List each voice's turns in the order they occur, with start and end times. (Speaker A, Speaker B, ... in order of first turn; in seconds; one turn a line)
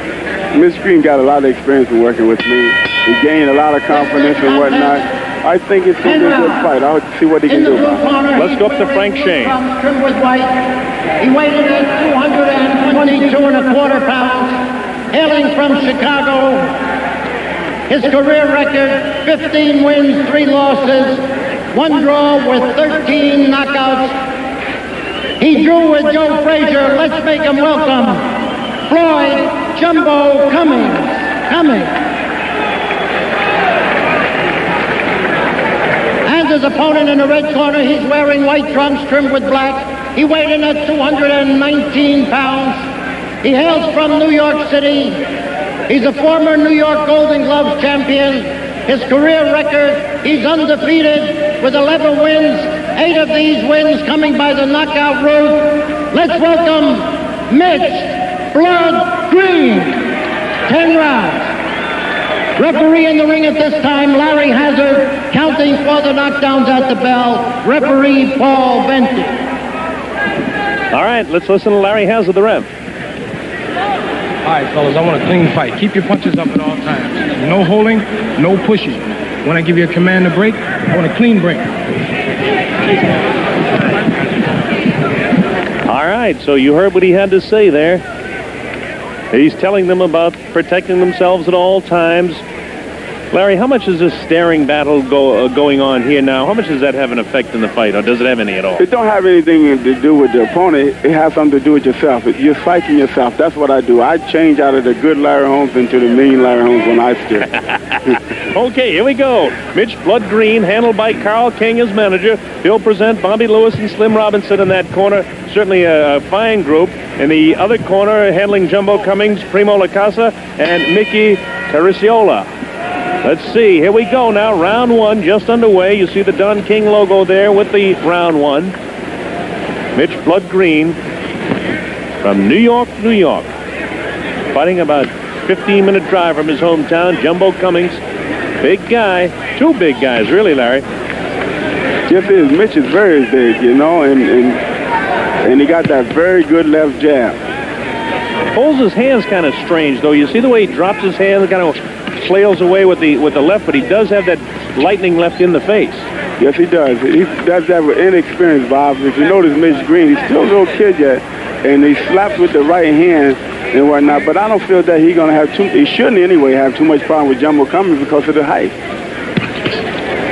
Speaker A: 0.5-8.0
Speaker B: 4.2-5.0
Speaker B: 6.1-6.6
Speaker B: 7.5-16.9
Speaker C: 8.4-9.6
Speaker B: 17.9-24.3
Speaker B: 25.4-32.1
Speaker B: 36.2-42.9
Speaker B: 43.4-45.3
Speaker B: 45.9-61.5
Speaker B: 62.6-69.5
Speaker C: 70.9-72.7
Speaker D: 74.4-81.7
Speaker C: 85.9-88.0
Speaker C: 89.3-92.4
Speaker C: 93.3-98.8
Speaker A: 98.8-107.5
Speaker C: 107.6-122.5
Speaker C: 123.2-128.7
Speaker C: 129.9-131.0
Speaker C: 132.2-133.5
Speaker C: 134.5-138.0
Speaker C: 138.6-140.8
Speaker A: 142.1-144.6
Speaker A: 145.4-147.4
Speaker C: 148.6-156.1
Speaker A: 156.4-168.7